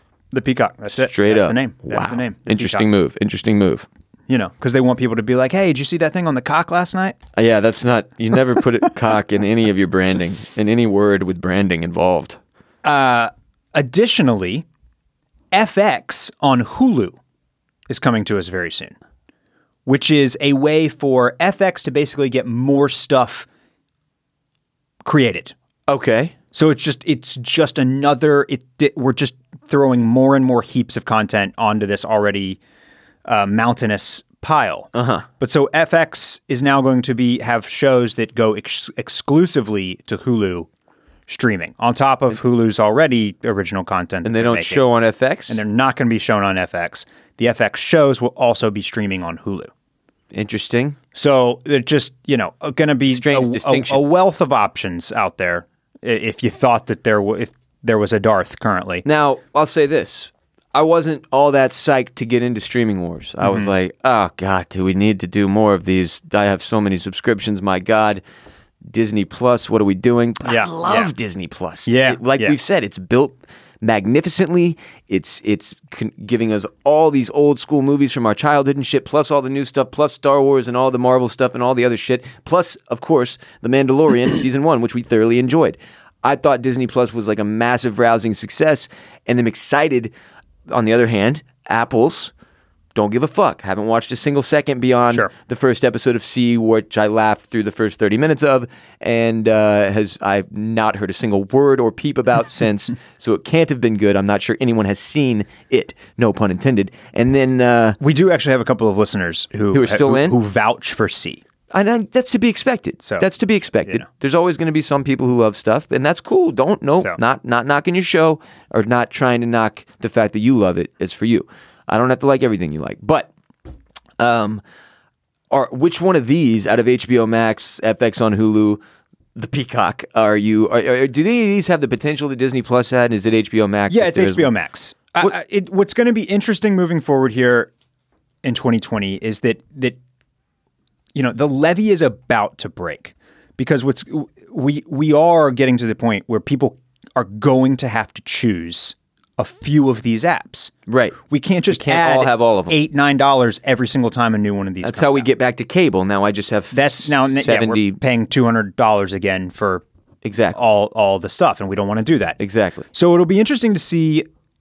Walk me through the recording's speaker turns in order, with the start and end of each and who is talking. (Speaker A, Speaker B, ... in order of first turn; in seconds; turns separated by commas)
Speaker A: 0.3-2.9, Speaker B: 0.9-3.9, Speaker A: 4.3-7.2, Speaker B: 7.4-12.4, Speaker A: 12.8-14.7, Speaker A: 15.5-17.2, Speaker A: 17.9-19.0, Speaker A: 19.9-23.5, Speaker A: 25.0-25.5, Speaker B: 25.9-26.3, Speaker A: 26.5-32.6, Speaker A: 33.3-40.7, Speaker B: 34.9-35.3, Speaker A: 41.3-44.8, Speaker B: 44.2-45.6, Speaker A: 45.5-49.7, Speaker B: 50.3-51.0, Speaker A: 51.1-59.0, Speaker B: 53.1-54.0, Speaker B: 59.0-68.2, Speaker A: 63.4-63.7, Speaker B: 68.9-90.1, Speaker A: 70.5-71.1, Speaker A: 71.9-72.6, Speaker B: 90.7-92.3, Speaker B: 93.0-108.0, Speaker A: 108.0-111.4, Speaker B: 109.7-110.4, Speaker B: 111.7-123.3, Speaker B: 124.2-124.6, Speaker B: 125.5-128.8, Speaker B: 129.3-134.5, Speaker A: 133.9-137.7, Speaker A: 138.4-140.0, Speaker A: 141.2-150.7, Speaker B: 150.9-151.2, Speaker A: 151.3-155.3, Speaker B: 151.7-152.8, Speaker B: 154.8-158.0, Speaker A: 156.7-159.8, Speaker B: 160.2-160.6, Speaker A: 160.5-162.4, Speaker B: 162.4-162.8, Speaker A: 162.9-164.3